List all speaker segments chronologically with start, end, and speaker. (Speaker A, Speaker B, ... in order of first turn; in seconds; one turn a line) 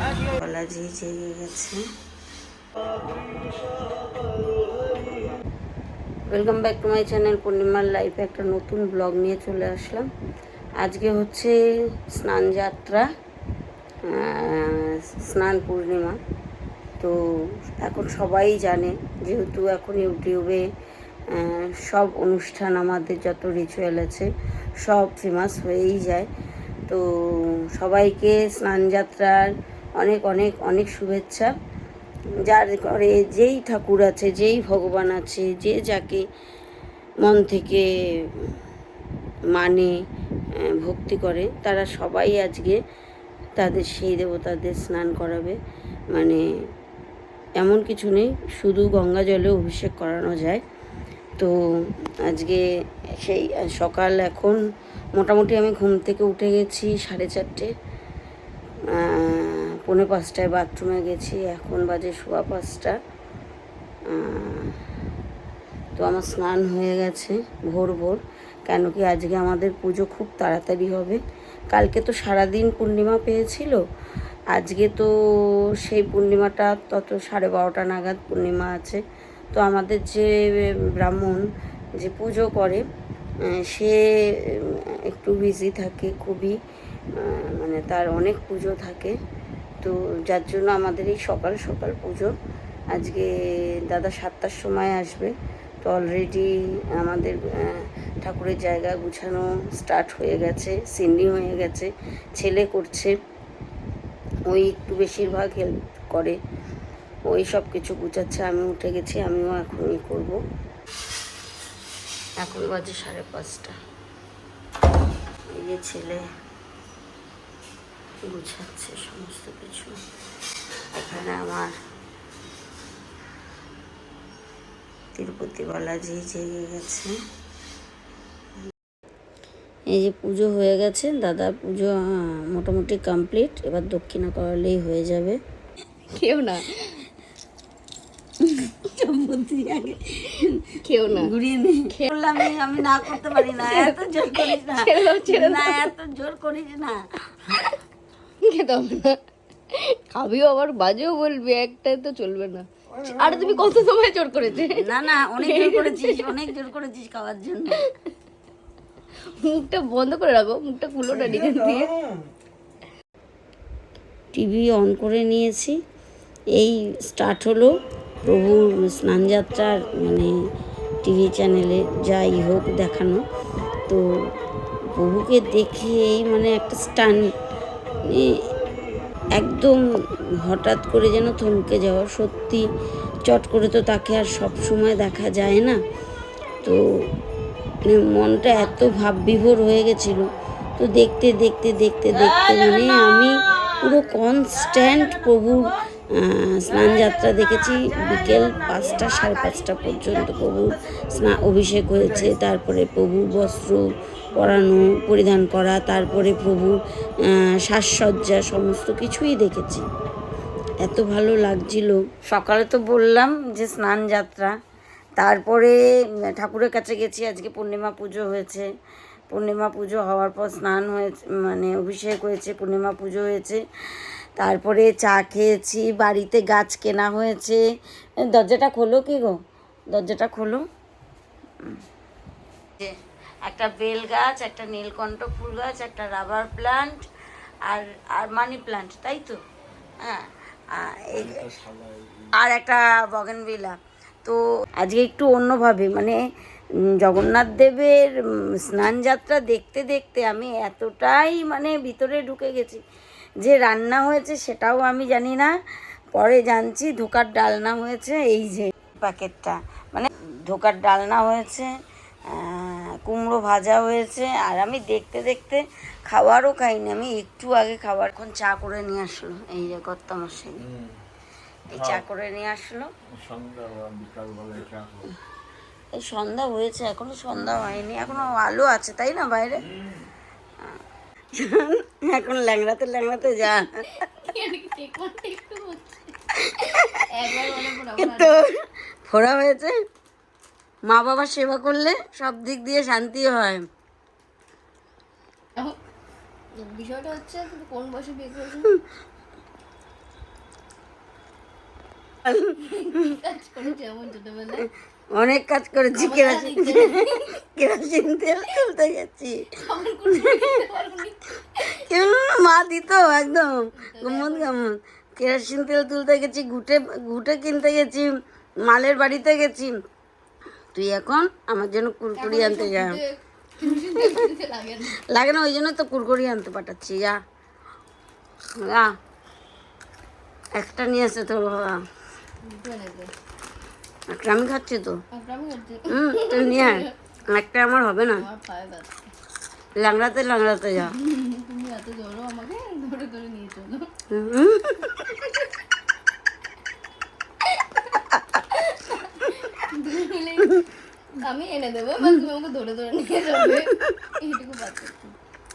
Speaker A: 0.3-1.8
Speaker A: 6.3-10.1
Speaker A: 10.8-11.5
Speaker A: 12.1-13.1
Speaker A: 14.1-16.2
Speaker A: 17.0-20.6
Speaker A: 21.3-24.3
Speaker A: 24.8-26.3
Speaker A: 26.9-31.5
Speaker A: 32.5-36.2
Speaker A: 37.2-38.6
Speaker A: 39.5-39.9
Speaker A: 40.6-42.8
Speaker A: 43.6-45.6
Speaker A: 46.1-46.4
Speaker A: 47.6-50.6
Speaker A: 52.3-52.6
Speaker A: 53.2-54.6
Speaker A: 55.1-57.7
Speaker A: 58.9-63.0
Speaker A: 64.1-64.8
Speaker A: 66.0-71.2
Speaker A: 71.7-73.8
Speaker A: 74.5-79.0
Speaker A: 79.5-81.4
Speaker A: 82.0-82.8
Speaker A: 83.5-86.6
Speaker A: 87.2-89.2
Speaker A: 89.8-92.3
Speaker A: 92.9-103.2
Speaker A: 104.5-106.4
Speaker A: 107.3-110.4
Speaker A: 112.4-113.8
Speaker A: 115.5-116.2
Speaker A: 118.2-120.0
Speaker A: 120.9-121.7
Speaker A: 125.2-127.1
Speaker A: 129.9-135.4
Speaker B: 136.2-137.0
Speaker A: 138.4-147.0
Speaker B: 140.8-141.3
Speaker B: 143.1-145.9
Speaker B: 148.4-149.2
Speaker B: 149.7-156.4
Speaker A: 154.7-157.8
Speaker B: 159.4-161.9
Speaker A: 164.3-165.8
Speaker A: 166.6-170.3
Speaker A: 171.0-173.2
Speaker A: 174.9-177.2
Speaker A: 178.1-178.4
Speaker A: 179.3-179.8
Speaker A: 180.4-182.7
Speaker A: 183.3-185.8
Speaker A: 187.9-209.8
Speaker A: 210.8-214.5
Speaker A: 215.2-218.7
Speaker A: 219.3-227.6
Speaker A: 228.3-229.4
Speaker A: 229.9-230.6
Speaker A: 233.4-237.0
Speaker A: 237.7-239.4
Speaker A: 240.0-241.5
Speaker C: 241.2-242.3
Speaker A: 242.3-246.2
Speaker A: 247.0-252.8
Speaker A: 253.4-255.5
Speaker A: 256.1-261.7
Speaker A: 262.3-270.6
Speaker A: 271.7-272.9
Speaker C: 273.1-275.1
Speaker A: 276.0-279.7
Speaker A: 281.4-283.8
Speaker B: 284.0-288.4
Speaker A: 287.6-289.8
Speaker A: 290.9-293.6
Speaker B: 296.6-298.8
Speaker B: 302.4-304.7
Speaker A: 305.1-309.5
Speaker B: 306.0-307.2
Speaker B: 309.5-311.8
Speaker A: 310.0-310.5
Speaker A: 311.8-318.1
Speaker B: 313.8-314.5
Speaker A: 318.6-319.8
Speaker A: 320.7-323.0
Speaker B: 322.2-325.0
Speaker A: 323.9-324.2
Speaker A: 325.1-327.2
Speaker A: 328.6-328.9
Speaker A: 330.6-331.8
Speaker B: 332.4-333.1
Speaker A: 334.1-335.0
Speaker B: 335.1-336.9
Speaker A: 335.9-338.3
Speaker B: 338.2-339.0
Speaker A: 339.8-341.0
Speaker B: 340.9-343.9
Speaker A: 344.1-345.1
Speaker B: 345.2-345.5
Speaker B: 347.4-347.9
Speaker B: 348.5-350.6
Speaker B: 351.2-355.2
Speaker A: 353.5-353.8